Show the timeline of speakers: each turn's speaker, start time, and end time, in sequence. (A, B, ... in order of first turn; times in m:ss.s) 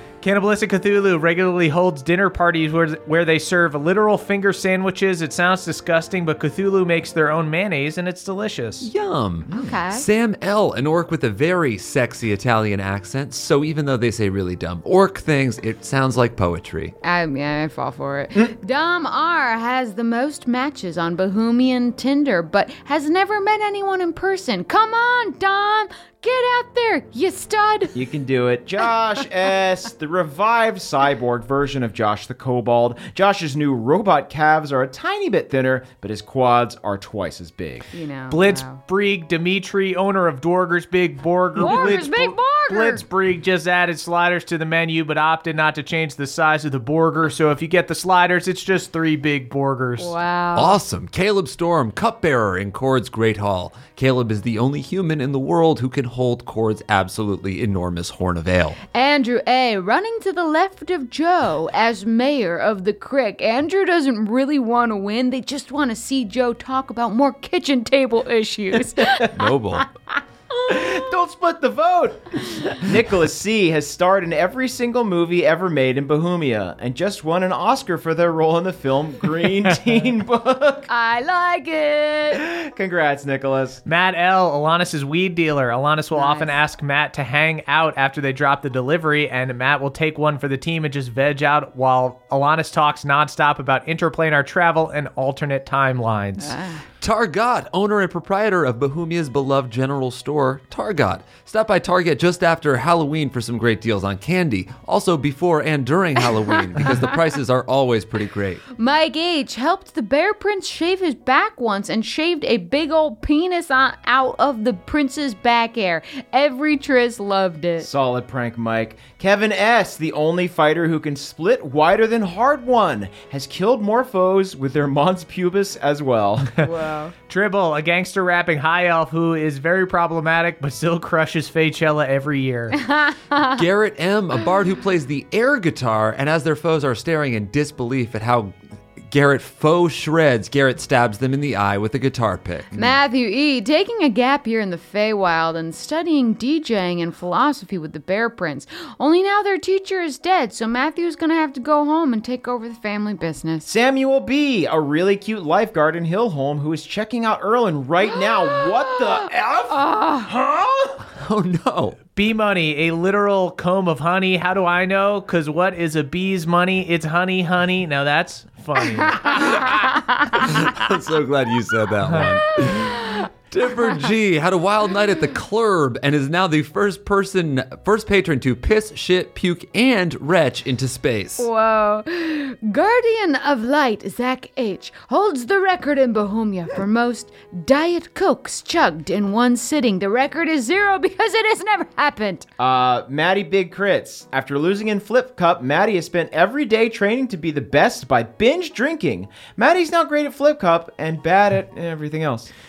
0:00.2-0:08.9 A
0:08.8-0:17.0 B
0:09.5-0:09.7 C
0:09.5-0:10.0 D
0:17.0-0:28.0 D
0:27.9-0:37.9 C
0:37.9-0:38.8 D
0:38.3-0:50.1 A
0:41.6-0:43.0 D
0:50.0-0:50.8 D
0:50.6-0:58.8 B
0:58.9-1:09.5 D
1:09.0-1:09.4 C
1:09.3-1:09.9 B
1:10.5-1:11.0 D
1:10.7-1:20.9 C
1:20.9-1:22.4 D
1:22.3-1:23.8 C
1:23.9-1:36.6 A
1:26.2-1:26.5 D
1:36.4-1:36.8 D
1:37.0-1:48.6 B
1:46.8-1:47.0 D
1:48.8-1:57.9 D
1:57.8-2:06.5 C
2:06.6-2:07.1 D
2:07.3-2:12.8 A
2:12.8-2:13.5 D
2:13.4-2:18.6 B
2:19.1-2:23.0 B
2:22.7-2:33.7 D
2:33.7-2:41.0 C
2:38.8-2:40.3 D
2:41.1-2:42.0 B
2:42.2-2:49.5 A
2:49.1-2:50.6 D
2:49.3-2:49.6 B
2:50.3-3:01.5 B
2:52.6-2:53.3 D
3:01.4-3:12.5 D
3:12.6-3:22.5 C